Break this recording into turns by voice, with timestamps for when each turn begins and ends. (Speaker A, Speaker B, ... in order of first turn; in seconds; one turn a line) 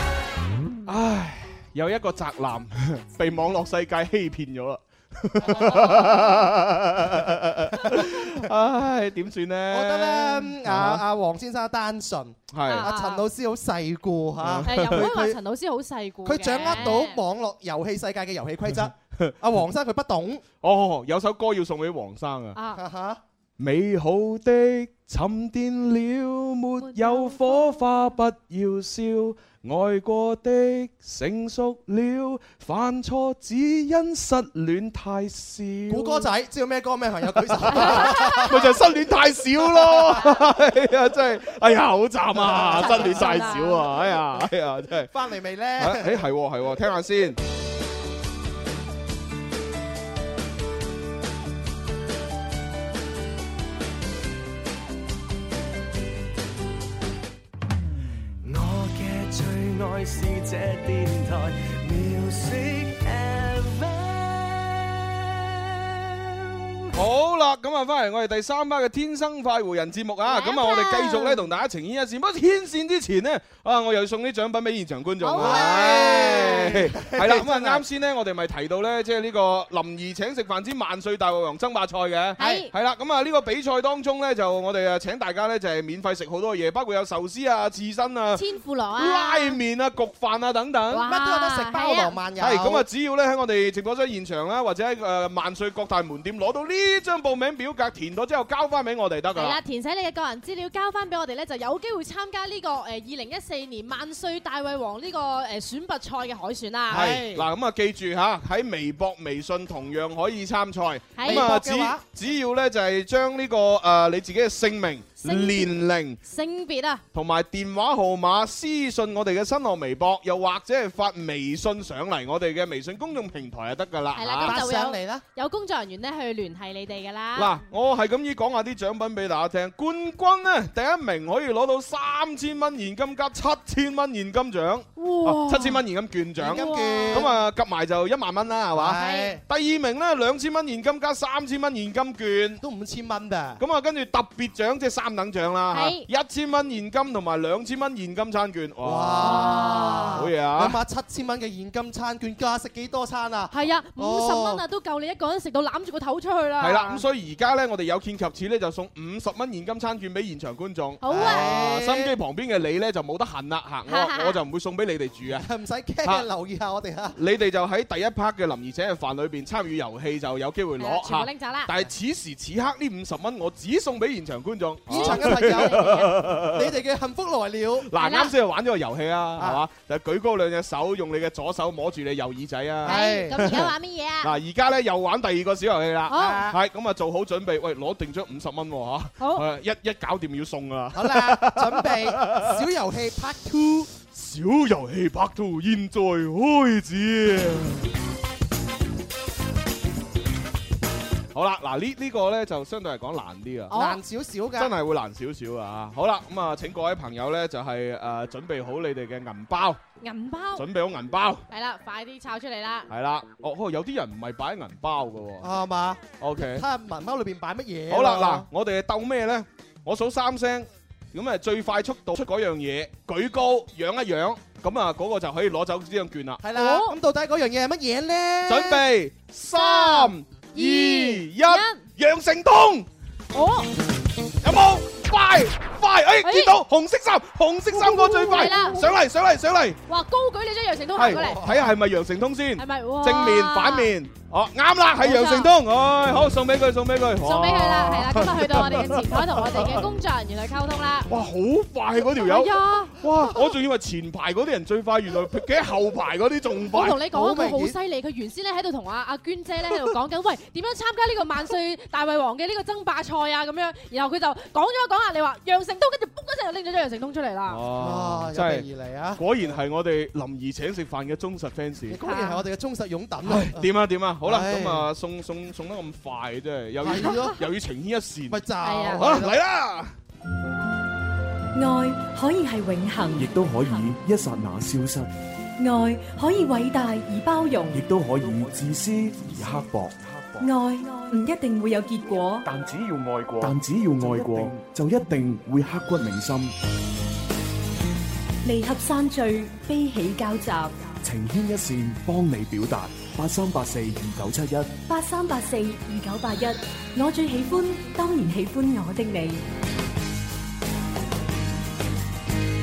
Speaker A: 0.9-11.0
Speaker B: 5.5-6.2
Speaker C: 5.6-6.2
Speaker B: 7.8-8.3
Speaker B: 9.7-15.4
Speaker A: 12.5-12.9
Speaker C: 12.7-13.2
Speaker A: 14.4-15.1
Speaker C: 14.7-17.2
Speaker B: 16.2-20.4
Speaker A: 16.6-17.0
Speaker A: 18.7-19.4
Speaker A: 20.6-22.6
Speaker C: 22.6-22.8
Speaker B: 22.7-23.2
Speaker A: 23.6-36.3
Speaker C: 26.8-27.9
Speaker B: 35.9-38.8
Speaker A: 37.4-45.1
Speaker C: 37.7-38.5
Speaker B: 39.7-40.4
Speaker B: 42.4-43.6
Speaker C: 42.8-43.9
Speaker B: 45.1-46.2
Speaker A: 45.8-47.4
Speaker D: 57.9-66.5
Speaker A: 67.0-88.4
Speaker C: 70.3-71.5
Speaker C: 75.2-76.7
Speaker B: 75.4-77.8
Speaker C: 82.4-82.7
Speaker C: 88.3-89.6
Speaker A: 89.0-91.0
Speaker C: 90.9-92.2
Speaker B: 91.0-92.9
Speaker A: 92.4-99.6
Speaker C: 99.3-107.1
Speaker B: 106.9-107.5
Speaker A: 106.9-116.2
Speaker C: 111.2-111.4
Speaker B: 111.2-112.0
Speaker C: 115.2-115.7
Speaker C: 116.2-117.0
Speaker A: 117.1-124.6
Speaker C: 124.2-127.6
Speaker B: 124.4-125.2
Speaker A: 127.4-142.6
Speaker C: 135.0-135.8
Speaker B: 136.4-137.3
Speaker C: 136.4-137.3
Speaker B: 138.7-139.4
Speaker C: 139.0-139.3
Speaker B: 142.6-143.6
Speaker A: 143.6-150.8
Speaker C: 145.7-146.1
Speaker B: 148.8-154.6
Speaker C: 149.2-150.2
Speaker C: 153.5-157.0
Speaker A: 156.6-165.5
Speaker C: 161.0-161.6
Speaker B: 161.1-162.1
Speaker C: 163.9-164.4
Speaker B: 165.3-167.2
Speaker A: 167.2-176.8
Speaker C: 170.8-171.7
Speaker B: 174.9-177.9
Speaker C: 174.9-176.2
Speaker A: 177.9-183.7
Speaker C: 178.0-178.3
Speaker B: 179.4-179.6
Speaker B: 182.8-183.6
Speaker C: 182.9-184.3
Speaker A: 184.2-192.6
Speaker C: 186.1-186.5
Speaker B: 186.1-186.6
Speaker B: 190.9-193.9
Speaker A: 194.1-197.9
Speaker A: 201.3-203.7
Speaker C: 203.7-204.0
Speaker B: 203.7-204.8
Speaker A: 204.6-209.8
Speaker C: 210.0-210.7
Speaker A: 210.6-211.4
Speaker C: 211.5-212.9
Speaker A: 212.9-215.5
Speaker B: 215.4-218.5
Speaker A: 216.2-216.6
Speaker A: 217.9-226.4
Speaker B: 226.4-228.8
Speaker C: 226.5-227.0
Speaker A: 228.5-232.9
Speaker C: 229.5-231.8
Speaker C: 233.3-233.7
Speaker A: 234.4-239.8
Speaker C: 236.2-236.6
Speaker C: 237.7-238.9
Speaker C: 239.9-241.5
Speaker A: 241.0-249.8
Speaker B: 241.0-241.7
Speaker C: 242.6-243.9
Speaker C: 245.0-245.5
Speaker C: 247.2-251.1
Speaker A: 251.1-257.0
Speaker C: 252.2-253.0
Speaker C: 256.7-267.6
Speaker B: 257.1-257.8
Speaker A: 267.5-268.6
Speaker B: 267.8-269.5
Speaker A: 269.2-272.0
Speaker B: 271.9-273.7
Speaker C: 272.0-272.4
Speaker A: 273.2-278.4
Speaker B: 274.2-274.9
Speaker B: 276.8-277.4
Speaker B: 278.3-279.4
Speaker C: 278.6-279.0
Speaker A: 279.0-279.9
Speaker E: 281.6-283.9
Speaker F: 283.1-285.1
Speaker E: 285.6-287.8
Speaker F: 287.7-290.5
Speaker E: 290.4-292.5
Speaker F: 292.4-296.5
Speaker E: 298.4-300.8
Speaker F: 301.0-304.8
Speaker E: 304.9-309.4